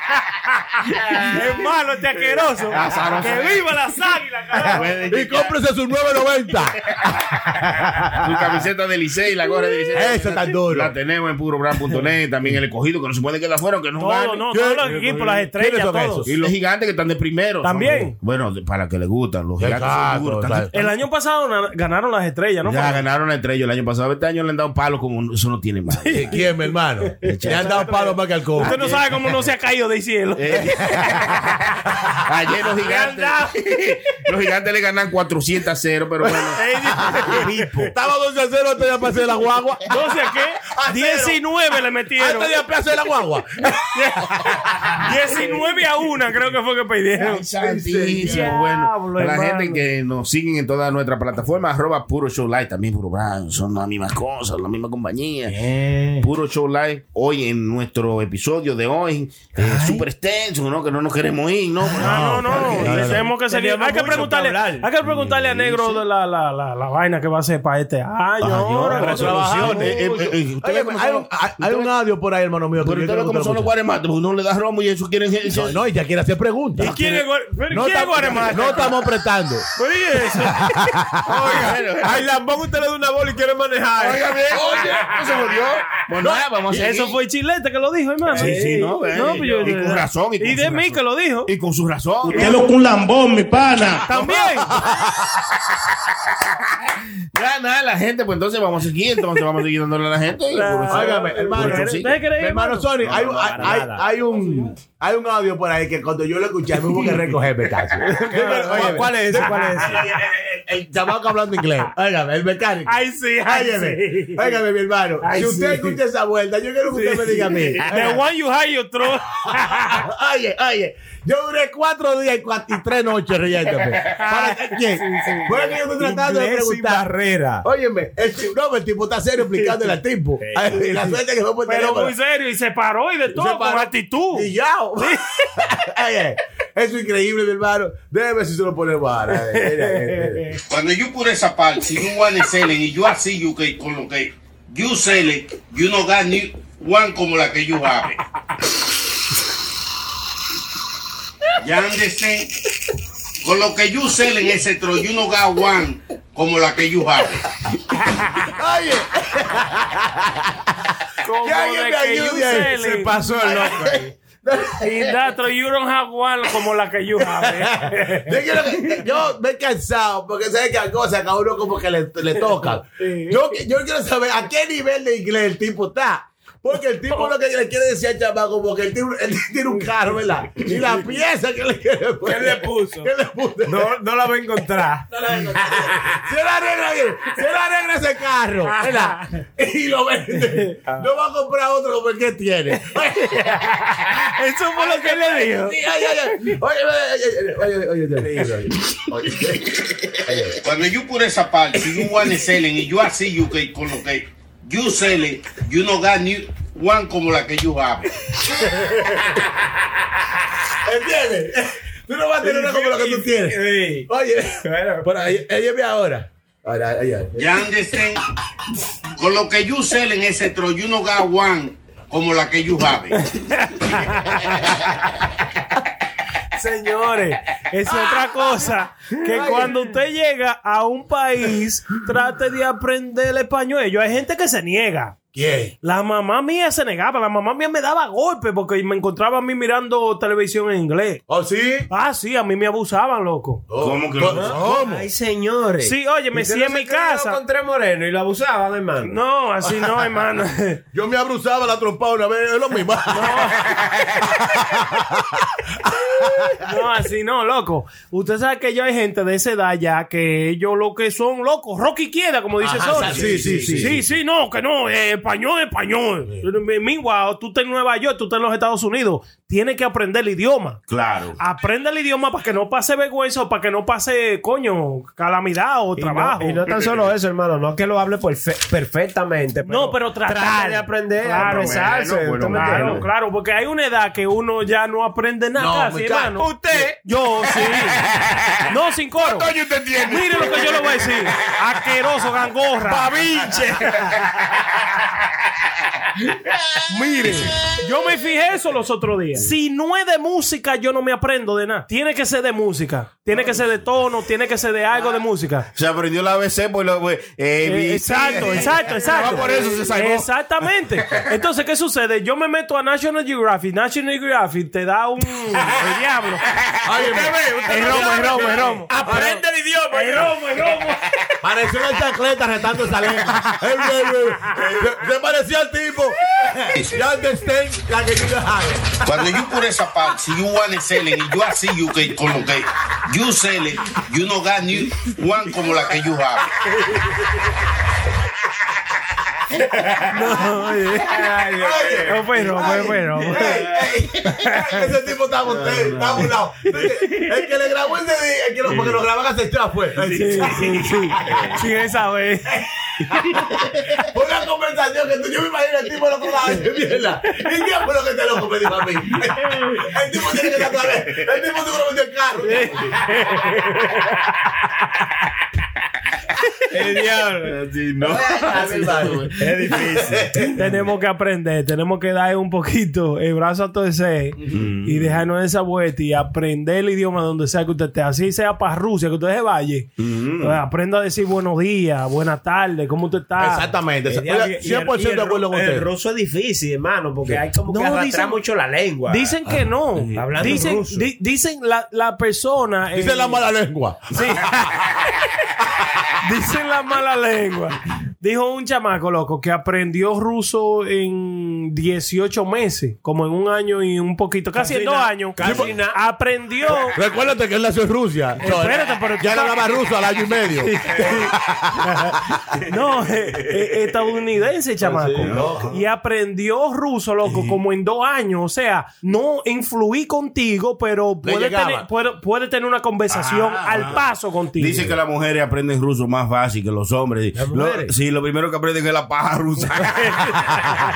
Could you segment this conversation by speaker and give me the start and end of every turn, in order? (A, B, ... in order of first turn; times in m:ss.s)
0:01.0-0:01.4 A
0:01.3-0:05.0 B
0:02.4-0:03.8 A
0:04.6-0:05.6 A
0:04.6-0:08.2 C
0:08.1-0:14.5 A
0:09.9-0:10.9 C
0:14.0-0:16.3 B
0:14.5-0:16.4 C
0:16.3-0:20.9 A
0:17.6-0:18.2 B
0:19.6-0:20.7 C
0:20.7-0:23.0 B
0:22.6-0:26.4 A
0:25.9-0:26.7 B
0:26.1-0:28.8 C
0:27.2-0:27.9 A
0:27.3-0:30.7 B
0:28.6-0:29.3 A
0:30.4-0:36.6 A
0:30.6-0:31.2 C
0:32.8-0:33.6 B
0:36.3-0:40.0 C
0:36.6-0:37.9 B
0:39.9-0:42.6 B
0:40.7-0:41.4 C
0:42.2-0:45.1 C
0:43.9-0:44.5 B
0:45.0-0:47.5 B
0:47.2-0:55.6 A
0:47.6-0:48.6 C
0:48.2-0:49.8 B
0:55.5-0:56.2 D
0:56.2-1:03.2 A
0:59.6-1:00.0 D
1:02.0-1:03.3 C
1:02.0-1:09.9 B
1:03.0-1:04.9 D
1:05.0-1:06.0 A
1:08.4-1:11.9 A
1:08.9-1:13.7 C
1:09.3-1:09.6 D
1:12.8-1:15.8 A
1:15.5-1:17.0 C
1:16.8-1:19.1 B
1:17.7-1:19.7 C
1:19.8-1:20.7 B
1:20.3-1:21.4 C
1:21.3-1:24.4 D
1:21.4-1:22.3 A
1:24.0-1:27.2 A
1:24.5-1:25.6 C
1:26.7-1:31.5 B
1:28.3-1:32.6 A
1:28.4-1:29.7 D
1:32.3-1:32.8 B
1:33.9-1:34.8 B
1:34.0-1:35.4 C
1:37.3-1:42.2 A
1:40.5-1:43.0 B
1:40.9-1:58.2 C
1:43.0-1:44.1 D
1:43.1-1:43.9 A
1:48.0-1:50.0 D
1:48.3-1:50.1 B
1:52.9-1:54.6 B
1:55.2-1:56.0 B
1:57.9-2:00.1 B
1:59.6-2:07.1 C
2:04.1-2:05.7 B
2:06.0-2:07.7 D
2:07.6-2:12.1 C
2:10.4-2:11.2 D
2:11.7-2:14.5 B
2:13.3-2:20.6 C
2:20.7-2:28.2 E
2:31.6-2:32.5 E
2:33.4-2:37.4 E
2:38.4-2:40.6 C
2:41.2-2:43.2 B
2:41.4-2:44.8 C
2:42.8-2:44.1 D
2:44.8-2:48.9 B
2:47.4-3:03.9 C
2:53.0-2:53.4 B
3:02.2-3:03.1 D
3:03.7-3:05.1 D
3:05.2-3:14.2 C
3:08.7-3:09.2 B
3:13.3-3:15.8 B
3:14.8-3:20.6 C
3:20.6-3:28.1 E
3:28.8-3:29.2 C
3:30.8-3:37.7 C
3:32.4-3:34.1 D
3:34.6-3:35.1 D
3:37.4-3:38.2 E
3:39.2-3:43.2 E
3:43.5-3:44.5 B
3:46.6-3:55.2 B
3:49.3-3:49.7 C
3:55.3-3:55.8 C
3:55.8-4:01.2 B
4:01.3-4:01.9 C
4:01.9-4:03.6 B
4:03.7-4:05.1 C
4:03.8-4:04.6 A
4:04.3-4:09.1 D
4:05.8-4:07.4 B
4:09.0-4:10.8 B
4:10.9-4:16.7 C
4:13.1-4:13.7 B
4:16.5-4:30.8 B
4:22.6-4:24.0 C
4:22.7-4:23.9 D
4:23.2-4:23.9 A
4:30.9-4:31.4 A
4:31.4-4:36.6 B
4:36.0-4:43.0 D
4:39.7-4:41.9 B
4:41.4-4:43.1 A
4:42.5-4:48.0 B
4:45.6-4:46.9 C
4:46.4-4:47.0 D
4:47.6-4:48.6 A
4:48.6-4:53.2 B
4:49.2-4:51.1 A
4:52.9-4:54.1 D
4:56.9-5:05.7 B
5:05.8-5:10.3 A
5:07.7-5:16.5 B
5:16.8-5:19.4 C
5:17.0-5:20.8 D
5:17.7-5:18.7 A
5:17.7-5:18.9 B
5:19.9-5:21.0 B
5:21.4-5:29.2 C
5:29.0-5:36.5 E
5:40.1-5:41.2 B
5:41.1-5:42.2 D
5:41.5-5:51.6 C
5:42.1-5:43.7 B
5:43.4-5:44.1 A
5:44.3-5:44.9 B
5:45.5-5:46.3 A
5:48.7-5:49.0 A
5:50.0-5:52.6 B
5:54.0-6:03.5 C
6:02.4-6:04.2 B
6:06.7-6:07.6 D
6:07.1-6:09.7 A
6:08.0-6:10.5 C
6:09.4-6:10.5 D
6:10.6-6:23.7 B
6:14.4-6:15.2 A
6:20.0-6:20.6 A
6:23.4-6:25.9 C
6:24.1-6:29.4 D
6:27.7-6:28.4 B
6:29.1-6:33.5 B
6:30.0-6:30.4 A
6:30.1-6:31.1 D
6:32.9-6:35.0 C
6:34.1-6:34.5 B
6:36.2-6:47.0 B
6:44.6-6:46.0 D
6:45.4-6:45.7 C
6:46.9-6:52.3 C
6:48.4-6:49.9 B
6:50.6-6:51.3 B
6:52.6-7:04.9 B
6:55.2-6:55.8 C
6:55.2-6:55.8 A
6:57.2-6:57.6 A
7:01.2-7:01.9 C
7:03.1-7:10.6 A
7:07.4-7:07.9 D